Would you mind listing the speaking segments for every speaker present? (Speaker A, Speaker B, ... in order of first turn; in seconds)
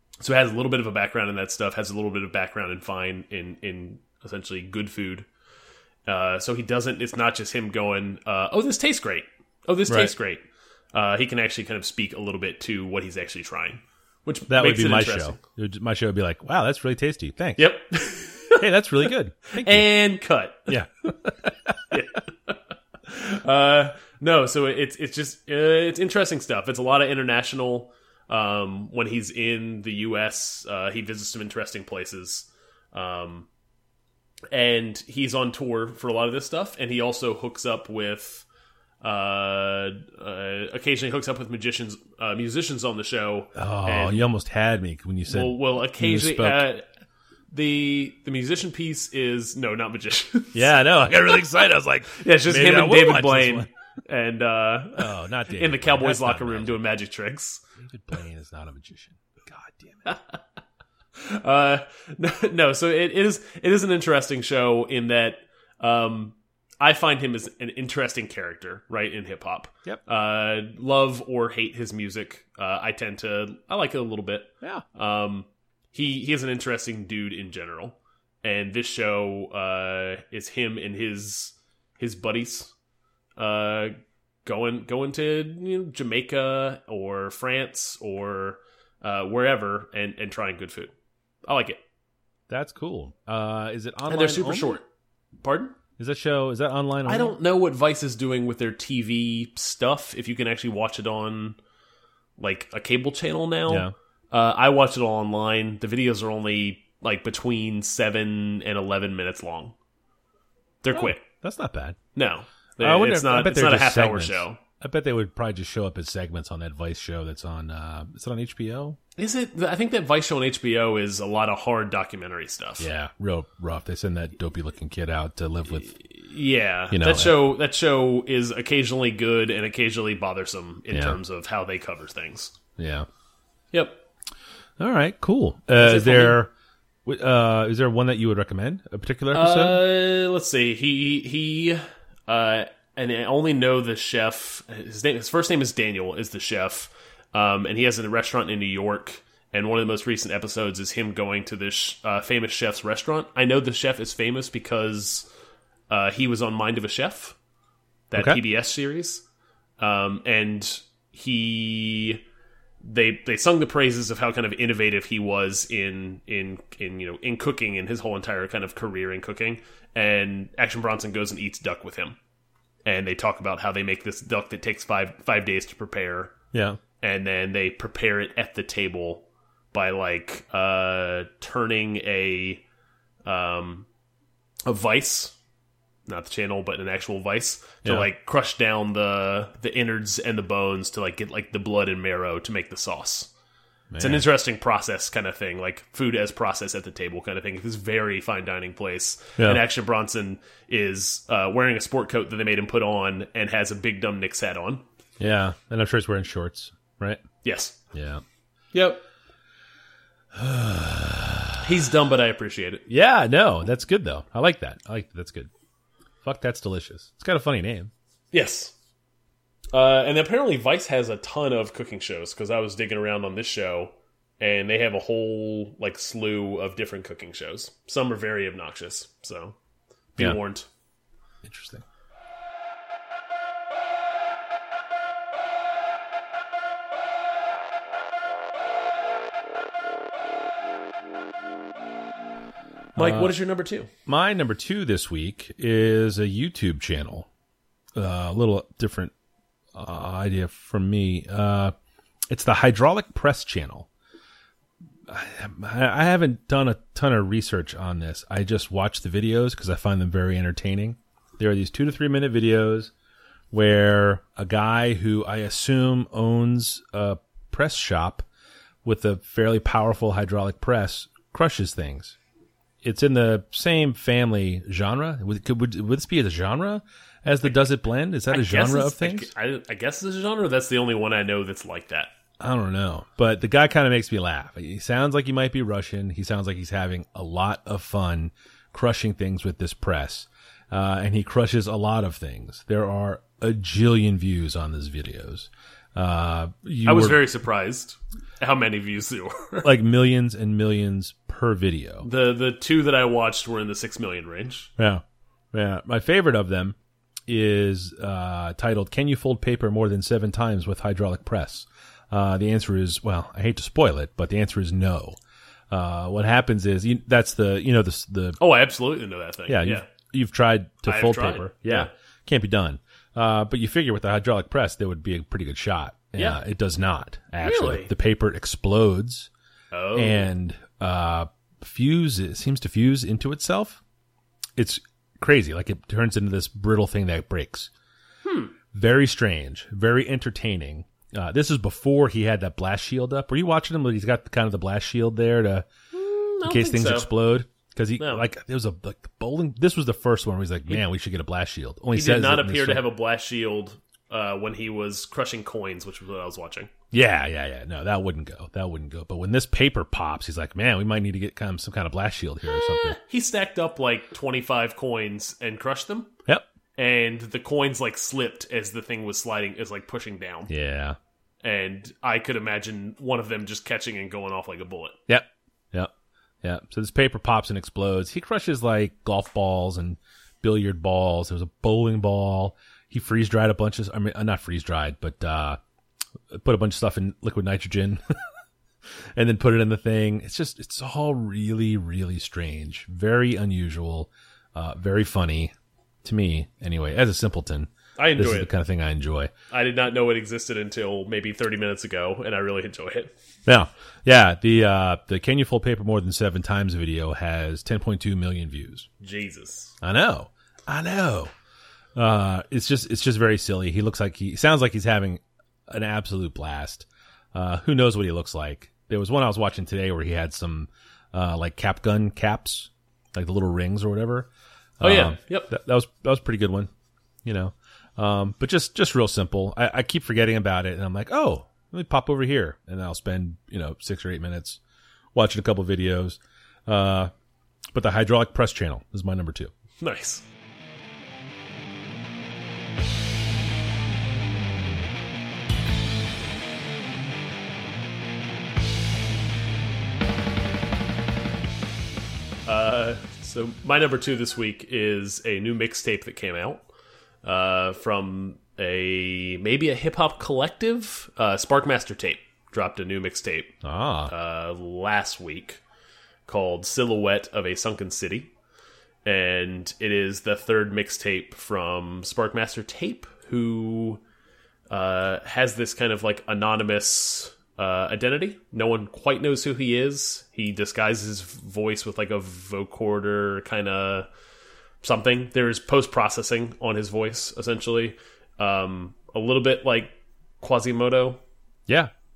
Speaker A: 0.2-5.3, 6.1-15.4, 17.6-20.8, 21.9-33.5, 34.5-38.5, 39.0-44.2, 45.3-46.9, 47.5-50.7, 52.2-57.6, 60.1-60.4, 61.2-82.7, 83.4-90.9, 91.5-91.8, 94.1-94.8, 95.4-95.8, 97.1-101.6, 102.4-109.8, 110.8-111.2, 112.2-114.6, 119.2-122.9, 125.9-132.6, 133.7-134.0, 135.8-136.4, 139.3-155.3, 155.9-157.4, 158.1-159.2, 159.8-162.2, 162.8-172.2, 172.8-176.3, 177.0-182.6, 183.2-183.9, 184.7-185.3, 186.1-193.3, 194.0-204.8, 207.4-207.8, 208.7-209.0, 211.6-212.8, 218.3-218.7, 219.7-229.6, 230.2-230.7, 243.0-243.9, 278.3-282.1, 296.9-299.7, 302.0-304.7, 318.4-319.9, 320.9-321.9, 327.4-327.9, 329.7-330.3, 338.2-338.6, 345.9-347.1, 348.0-348.2, 351.9-356.7, 362.5-366.1, 366.8-370.5, 371.4-375.0, 398.0-398.5, 399.5-403.1, 409.0-409.8, 424.8-425.5, 439.8-440.2, 452.4-456.7, 457.2-463.6, 464.1-465.6, 466.3-468.3, 469.1-474.0, 474.7-484.1, 484.8-491.2
Speaker B: 9.9-10.1, 14.5-17.7, 18.6-19.9, 20.7-22.0, 43.5-46.7, 50.5-53.7, 55.0-56.8, 57.8-60.1, 92.5-94.8, 96.0-97.3, 103.7-103.9, 110.9-112.0, 112.8-119.0, 122.8-126.0, 126.9-127.4, 130.9-131.2, 132.8-133.1, 134.8-136.5, 137.1-139.8, 158.2-158.4, 176.5-176.8, 193.9-194.3, 199.4-199.6, 205.2-207.2, 207.9-208.2, 210.3-211.7, 212.9-215.5, 216.2-217.9, 231.4-231.8, 242.9-243.4, 244.1-247.3, 248.0-249.1, 249.8-251.7, 252.3-253.9, 255.1-262.9, 263.5-268.2, 268.8-272.2, 272.8-279.3, 282.4-297.2, 299.6-302.1, 304.8-306.8, 307.3-315.2, 315.7-318.4, 319.5-329.3, 329.9-333.8, 334.6-337.7, 338.7-345.7, 346.4-352.9, 356.9-363.0, 370.5-371.0, 375.1-375.9, 376.4-385.6, 386.3-388.0, 389.1-395.5, 396.0-399.3, 403.5-408.9, 409.8-411.3, 411.9-424.3, 424.8-426.7, 427.2-434.6, 435.1-437.1, 437.7-439.5, 463.6-464.1